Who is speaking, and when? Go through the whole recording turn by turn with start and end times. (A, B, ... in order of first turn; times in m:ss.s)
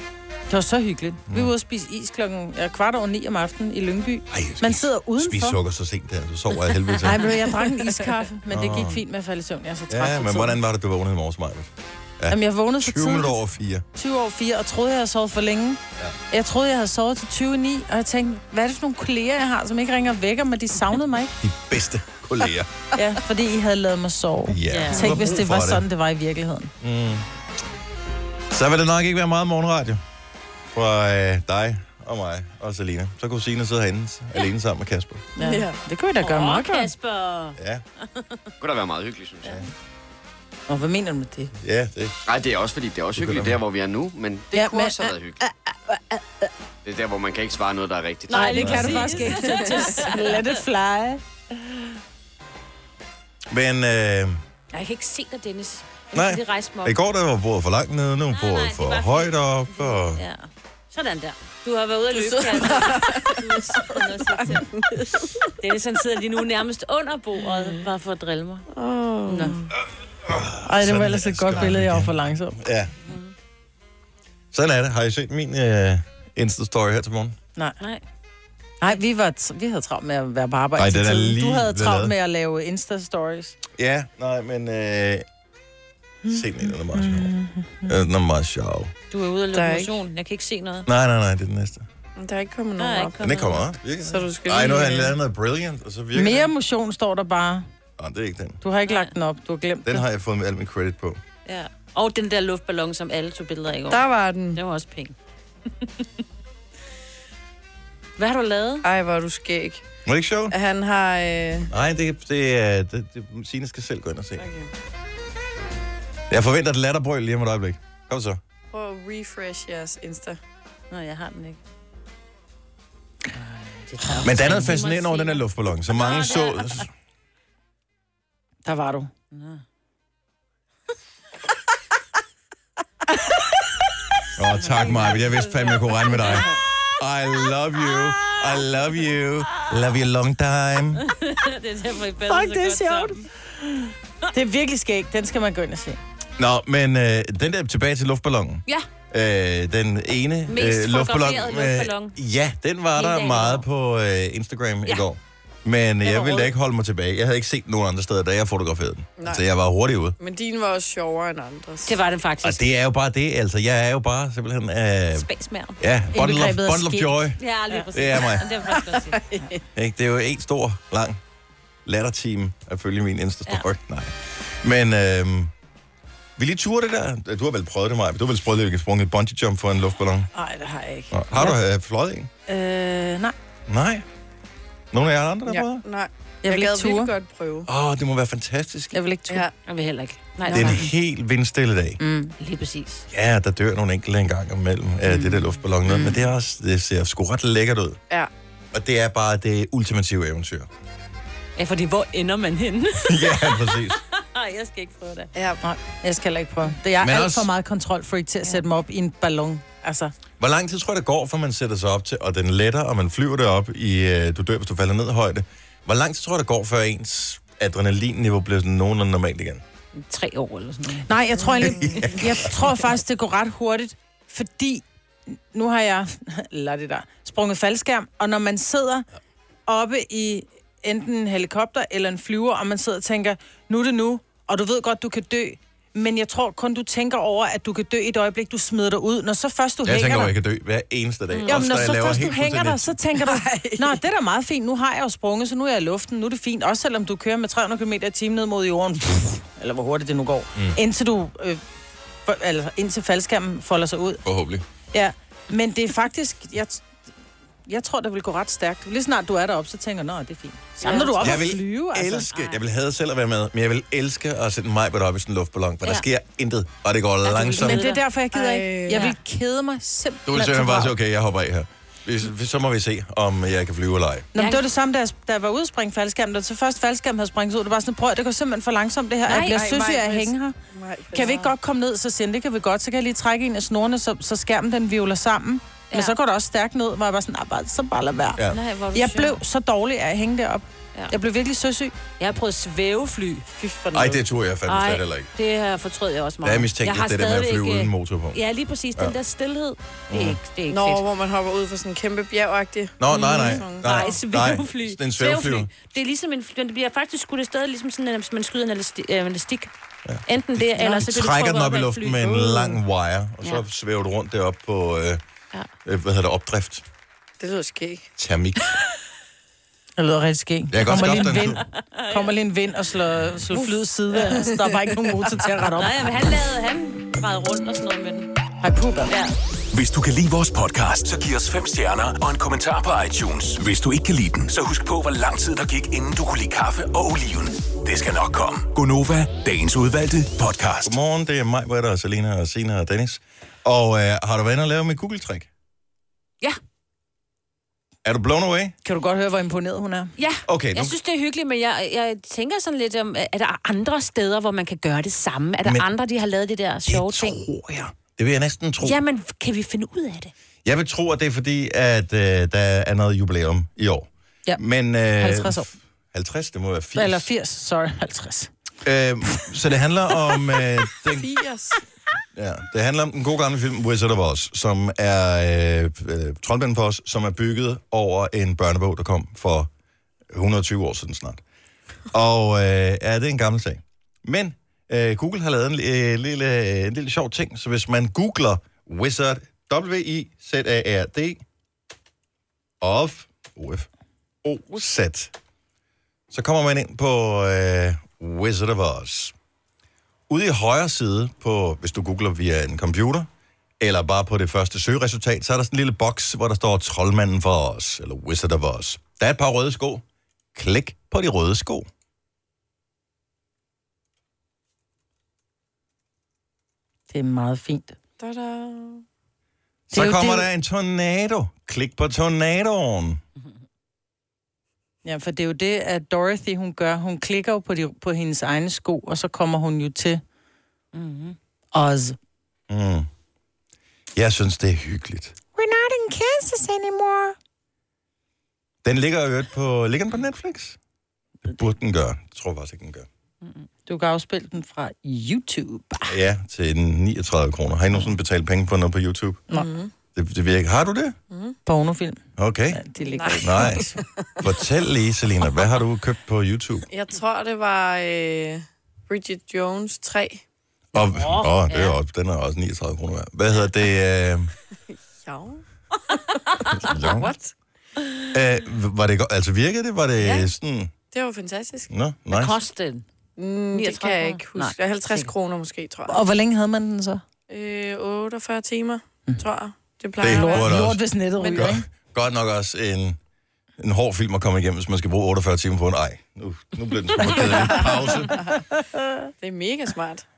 0:00.5-0:05.6 A
0:04.3-0:07.4 B
0:07.0-0:10.6 A
0:08.5-0:09.0 B
0:09.9-0:13.8 B
0:12.3-0:13.4 A
0:14.0-0:15.8 A
0:16.3-0:21.3 A
0:21.4-0:22.8 B
0:23.0-0:26.7 A
0:24.5-0:25.8 B
0:24.7-0:25.2 C
0:26.8-0:27.2 B
0:28.5-0:30.0 B
0:30.7-0:35.3 B
0:35.4-0:36.9 A
0:35.4-0:35.8 D
0:36.2-0:37.6 C
0:37.6-0:37.8 B
0:38.6-0:39.6 E
0:40.7-0:41.5 A
0:41.6-0:42.2 B
0:42.3-0:45.4 E
0:43.2-0:43.6 B
0:44.5-0:46.5 A
0:46.8-0:48.9 E
0:48.3-0:50.6 C
0:48.3-0:51.8 A
0:48.6-0:49.0 B
0:49.2-0:50.0 D
0:53.5-0:54.4 B
0:54.7-0:57.0 C
0:56.1-1:00.2 B
0:58.3-1:08.6 C
1:02.1-1:05.3 D
1:08.7-1:09.7 D
1:09.3-1:09.5 C
1:10.3-1:12.9 B
1:10.6-1:12.6 A
1:13.1-1:13.3 C
1:14.5-1:17.4 B
1:18.8-1:23.6 A
1:20.8-1:22.1 B
1:23.7-1:25.3 B
1:26.3-1:27.9 A
1:26.3-1:27.3 B
1:27.8-1:28.9 B
1:29.1-1:30.9 C
1:29.5-1:30.0 D
1:30.9-1:31.9 B
1:32.2-1:33.2 D
1:32.8-1:33.7 C
1:33.2-1:36.5 B
1:34.0-1:35.2 D
1:36.1-1:37.7 A
1:38.0-1:38.6 B
1:38.6-1:40.0 A
1:39.8-1:41.2 B
1:41.4-1:45.2 C
1:43.9-1:44.6 D
1:48.2-1:48.8 C
1:48.8-1:49.8 D
1:50.1-1:50.6 B
1:50.5-1:51.7 D
1:51.7-1:54.4 B
1:54.4-1:54.7 D
1:56.3-1:58.4 B
1:58.7-2:00.4 D
2:00.9-2:01.6 C
2:03.9-2:06.9 C
2:04.2-2:06.9 B
2:08.6-2:09.1 A
2:09.3-2:09.6 C
2:14.4-2:21.0 B
2:14.8-2:16.6 C
2:21.0-2:23.2 C
2:22.3-2:26.0 A
2:26.4-2:40.2 B
2:30.5-2:32.2 C
2:33.0-2:33.7 C
2:36.0-2:36.5 C
2:40.2-2:42.0 D
2:41.8-2:42.6 C
2:42.4-2:45.3 B
2:45.1-2:45.8 C
2:45.8-2:47.4 B
2:46.1-2:47.2 A
2:47.4-2:49.2 C
2:47.9-2:48.5 B
2:48.6-2:49.6 D
2:49.8-2:51.2 B
2:51.9-2:55.5 B
2:56.4-3:00.3 B
3:00.4-3:01.6 A
3:01.1-3:02.3 B
3:02.5-3:03.4 A
3:03.7-3:04.1 B
3:04.9-3:05.8 B
3:05.5-3:07.7 D
3:06.4-3:07.1 A
3:07.7-3:09.0 B
3:08.9-3:09.5 A
3:09.3-3:09.5 D
3:09.7-3:10.8 C
3:10.5-3:10.8 D
3:10.5-3:12.0 B
3:12.0-3:12.3 A
3:12.4-3:13.0 C
3:13.1-3:18.0 B
3:18.7-3:20.7 B
3:21.6-3:25.3 C
3:23.0-3:24.0 B
3:25.4-3:25.6 D
3:25.6-3:30.1 A
3:27.0-3:27.5 B
3:30.4-3:39.6 B
3:40.0-3:41.1 C
3:41.1-3:49.1 A
3:41.6-3:42.5 B
3:49.7-4:00.3 A
3:59.8-4:03.0 B
4:01.3-4:01.6 C
4:01.5-4:11.6 A
4:03.2-4:04.0 D
4:12.3-4:14.2 A
4:14.2-4:14.6 B
4:14.9-4:16.9 A
4:17.7-4:22.3 A
4:20.8-4:21.4 C
4:20.8-4:21.2 D
4:21.2-4:27.9 B
4:22.3-4:22.6 C
4:27.2-4:29.1 D
4:27.6-4:30.9 A
4:27.6-4:28.0 C
4:28.9-4:29.2 C
4:30.3-4:34.3 B
4:34.3-4:34.6 C
4:34.3-4:40.6 A
4:39.3-4:39.6 C
4:39.4-4:41.5 D
4:41.1-4:48.4 A
4:48.4-4:48.6 B
4:48.5-4:49.4 C
4:48.9-4:52.0 A
4:52.2-5:01.0 C
4:53.9-4:55.3 B
4:56.4-4:58.4 B
5:00.1-5:00.4 B
5:00.7-5:04.2 D
5:03.0-5:05.7 B
5:03.1-5:09.7 C
5:10.1-5:15.2 B
5:10.3-5:12.3 C
5:12.2-5:12.7 D
5:15.8-5:16.8 B
5:17.4-5:18.1 D
5:18.2-5:18.8 B
5:20.0-5:26.0 A
5:20.7-5:21.6 B
5:21.7-5:22.3 C
5:24.3-5:25.3 D
5:25.8-5:28.3 C
5:28.6-5:29.2 A
5:29.1-5:29.3 C
5:29.7-5:41.0 F
5:40.8-5:45.5 B
5:48.0-5:48.8 B
5:48.8-5:50.1 A
5:50.2-5:57.4 C
5:50.5-5:51.0 B
5:56.9-5:59.0 B
5:58.8-6:00.3 C
6:00.6-6:07.3 B
6:05.2-6:05.7 A
6:07.0-6:08.5 A
6:08.8-6:11.3 B
6:11.1-6:11.8 D
6:12.4-6:19.7 B
6:20.3-6:21.4 B
6:22.1-6:31.4 B
6:32.8-6:33.9 B
6:34.4-6:35.3 B
6:36.3-6:39.4 B
6:40.3-6:43.3 B
6:43.8-6:50.0 B
6:50.6-6:51.9 B
6:57.1-6:58.0 A
6:58.2-6:59.0 D
6:59.9-7:03.2 B
6:59.9-7:00.5 A
7:05.0-7:10.2 A
7:10.9-7:11.4 C
7:11.7-7:12.2 A
7:12.7-7:13.1 B
7:14.2-7:15.4 B
7:15.6-7:17.4 A
7:18.8-7:20.8 B
7:21.5-7:23.1 B
7:23.9-7:26.1 A
7:26.1-7:29.4 B
7:29.5-7:29.9 D
7:30.2-7:31.2 B
7:31.3-7:31.6 D
7:31.7-7:34.0 A
7:32.4-7:32.8 B
7:33.0-7:34.5 D
7:33.4-7:33.8 B
7:34.4-7:36.9 B
7:36.9-7:40.4 D
7:40.9-7:44.5 B
7:41.0-7:42.0 C
7:44.9-7:47.5 D
7:46.7-7:47.3 B
7:48.3-7:50.9 B
7:50.2-7:50.5 D
7:51.1-7:51.9 D
7:51.9-7:52.6 B
7:52.3-7:53.0 C
7:53.4-7:56.2 D
7:53.7-7:55.3 C
7:56.1-7:57.2 A
7:57.5-8:00.8 D
8:00.2-8:01.0 B
8:00.2-8:01.8 A
8:01.4-8:01.7 D
8:01.5-8:03.2 B
8:03.8-8:08.4 B
8:07.2-8:08.5 D
8:08.7-8:09.2 A
8:09.4-8:10.2 D